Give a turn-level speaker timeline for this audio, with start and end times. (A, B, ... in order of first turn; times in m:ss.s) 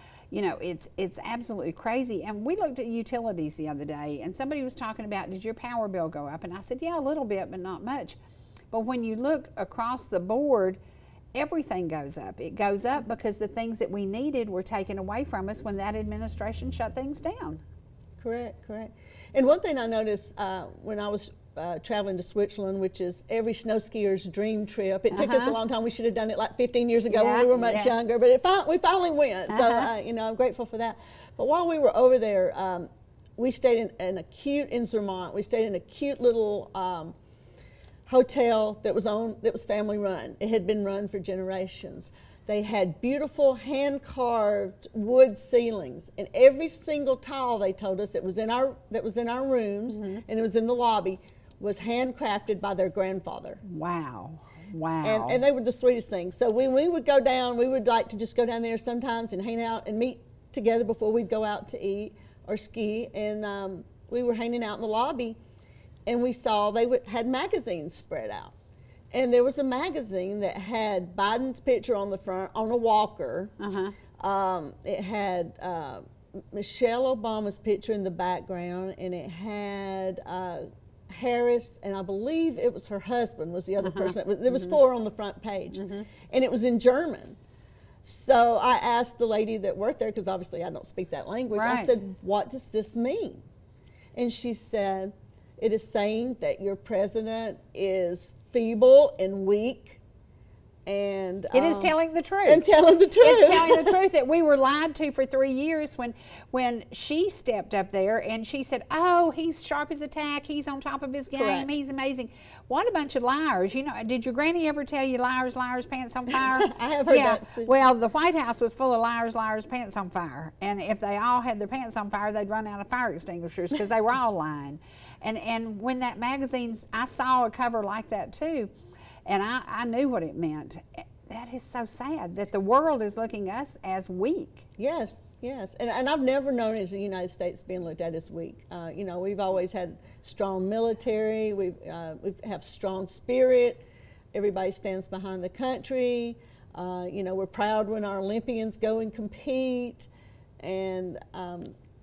0:00.3-0:08.2 A
0:08.7-0:10.8 A
0:11.3-0:17.6 A
0:18.2-0:37.2 B
0:25.1-0:25.6 A
0:27.1-0:27.9 A
0:29.5-0:29.9 A
0:38.0-0:53.6 B
0:49.9-0:50.2 A
0:53.6-0:55.4 A
0:55.0-1:05.4 B
1:06.0-1:08.5 B
1:09.1-1:13.5 B
1:13.6-1:13.9 A
1:14.2-1:27.4 B
1:23.8-1:24.8 A
1:25.7-1:26.1 A
1:28.0-1:33.4 B
1:31.5-1:32.0 A
1:34.1-1:40.0 B
1:40.8-1:44.0 B
1:41.5-1:42.7 A
1:43.2-2:08.7 A
1:51.3-1:51.7 B
1:56.3-1:57.7 B
2:09.2-2:14.7 A
2:14.8-2:30.1 B
2:30.6-2:31.7 B